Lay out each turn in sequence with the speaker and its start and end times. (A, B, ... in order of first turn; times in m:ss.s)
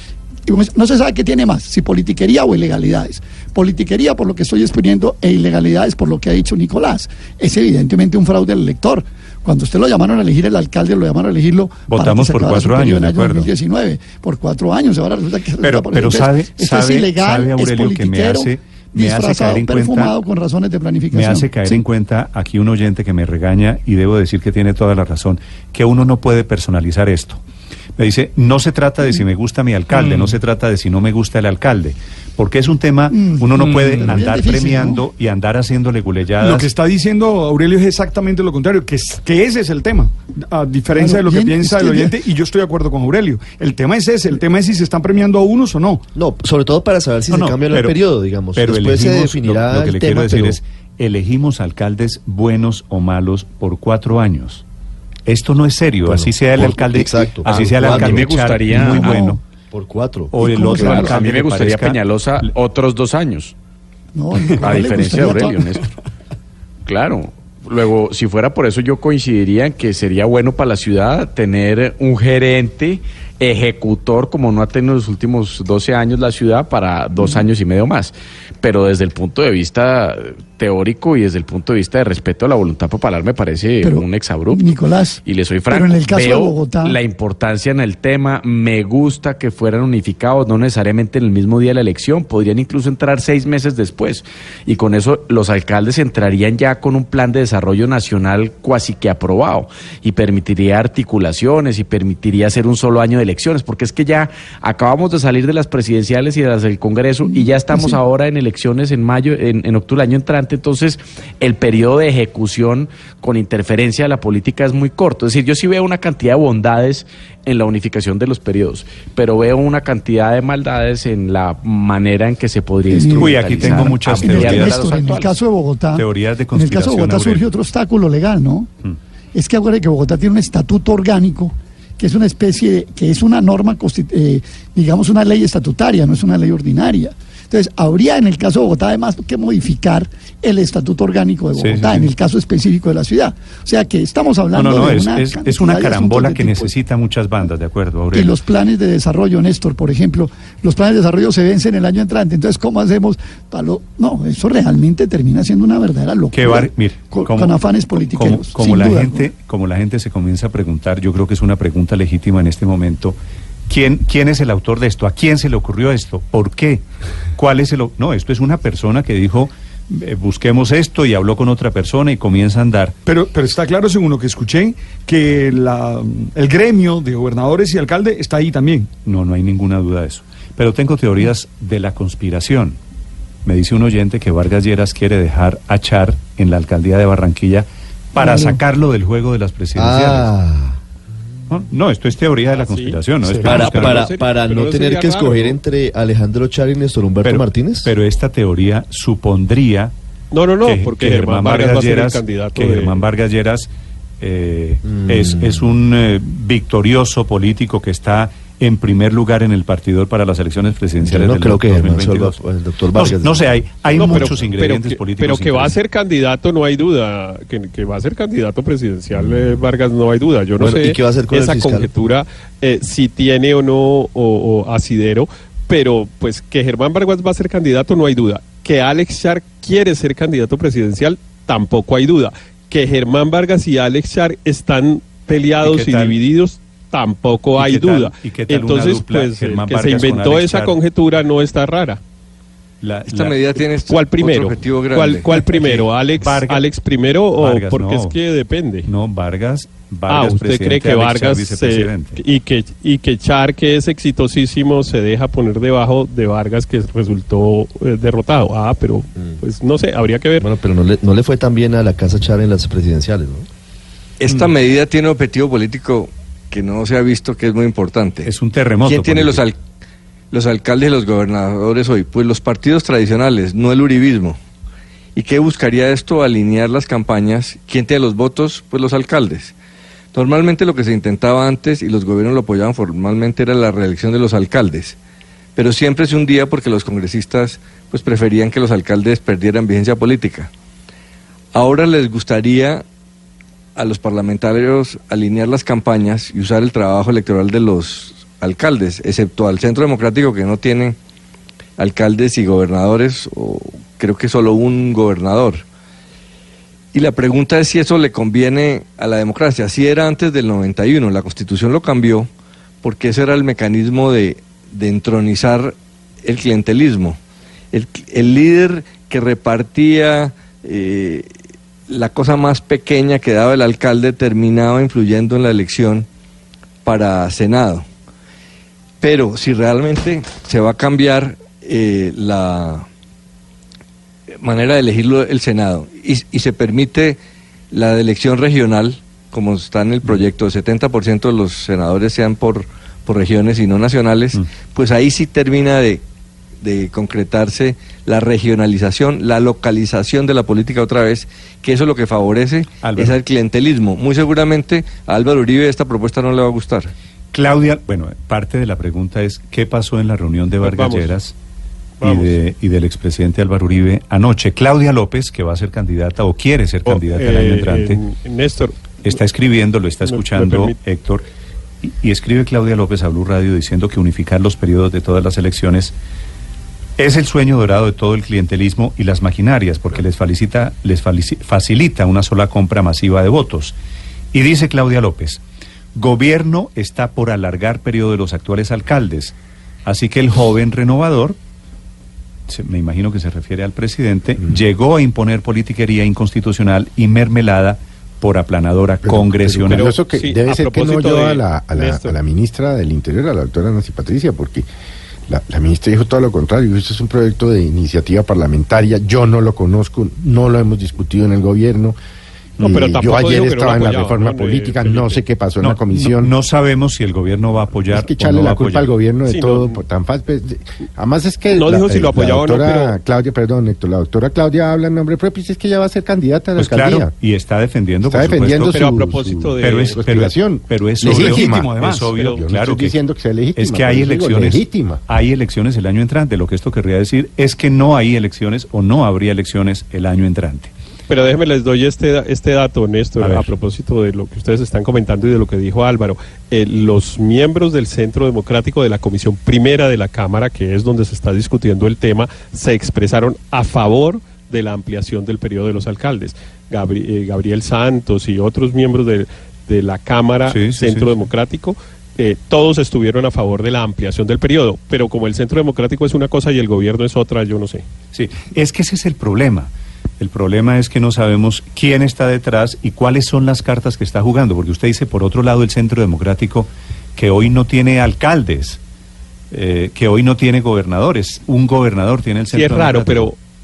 0:00.5-0:21.8 A
0:11.9-0:13.5 B
0:15.6-0:20.2 B
0:21.1-0:27.4 B
0:28.0-0:36.7 B
0:33.1-0:35.0 A
0:33.6-0:34.2 C
0:36.4-0:46.1 C
0:41.0-0:42.2 A
0:46.2-0:50.6 D
0:47.3-0:48.0 B
0:48.6-0:54.6 B
0:55.3-0:59.4 B
0:56.1-0:58.3 D
0:57.4-0:59.3 E
0:58.7-0:59.4 A
0:59.7-1:00.4 D
1:00.3-1:02.5 B
1:00.4-1:01.2 A
1:00.8-1:03.5 E
1:04.1-1:05.6 A
1:04.6-1:05.9 E
1:06.9-2:05.4 E
1:23.8-1:27.0 A
1:47.3-1:48.0 A
2:02.9-2:08.7 A
2:03.1-2:04.9 B
2:05.9-2:07.5 B
2:09.3-2:26.7 A
2:21.5-2:22.1 B
2:24.5-2:28.4 B
2:28.1-2:39.3 A
2:36.3-2:43.2 B
2:43.7-2:46.8 B
2:47.4-2:53.0 B
2:53.1-2:58.9 C
2:59.0-3:02.8 B
3:03.4-3:10.3 B
3:08.2-3:08.6 D
3:09.8-3:10.8 D
3:11.5-3:14.1 B
3:12.5-3:15.6 F
3:13.4-3:17.9 D
3:17.2-3:19.9 B
3:20.3-3:23.1 F
3:20.6-3:32.4 B
3:24.8-3:25.7 D
3:31.0-3:34.5 D
3:32.9-3:35.8 B
3:33.9-4:02.0 F
3:40.6-3:41.9 D
3:55.6-3:56.2 B
3:57.6-4:00.8 B
4:02.8-4:03.4 B
4:03.1-4:05.9 G
4:03.9-4:08.9 F
4:05.6-4:06.7 B
4:07.4-4:08.2 B
4:08.9-4:12.2 B
4:10.1-4:20.4 F
4:20.4-4:23.5 D
4:24.2-4:28.3 G
4:28.2-4:29.4 B
4:28.8-4:29.6 G
4:30.3-4:34.4 G
4:35.2-4:39.6 G
4:40.1-4:45.0 G
4:45.6-4:50.5 G
4:51.5-4:52.8 G
4:53.8-5:01.0 G
5:01.8-5:05.6 G
5:06.9-5:12.3 G
5:12.8-5:17.2 G
5:17.7-5:21.3 G
5:21.9-5:26.1 G
5:26.8-5:27.9 G
5:29.0-5:32.9 G
5:34.4-5:37.2 G
5:37.7-5:46.0 G
5:46.6-5:56.9 G
5:52.8-5:53.2 B
5:57.3-6:01.4 B
6:00.6-6:01.2 F
6:02.0-6:02.4 F
6:02.0-6:08.0 B
6:06.8-6:09.2 F
6:09.0-6:11.2 B
6:10.0-6:10.8 F
6:11.8-6:15.9 B
6:17.0-6:23.8 B
6:24.3-6:25.4 B
6:26.0-6:31.4 B
6:32.5-6:39.9 B
6:39.0-6:44.7 H
6:39.7-6:42.2 F
6:45.3-6:52.0 H
6:52.6-6:55.2 F
6:52.6-6:56.3 H
6:55.6-6:59.0 B
6:57.9-7:07.1 H
6:59.2-6:59.8 F
7:01.5-7:03.0 F
7:06.6-7:08.8 B
7:08.0-7:15.0 H
7:08.7-7:10.0 F
7:09.6-7:13.0 B
7:11.0-7:12.1 C
7:12.1-7:12.5 F
7:13.6-7:20.7 B
7:21.1-7:47.8 F
7:23.2-7:23.5 B
7:40.5-7:41.3 B
7:48.1-7:58.8 B
7:59.5-8:03.3 B
8:02.5-8:03.4 F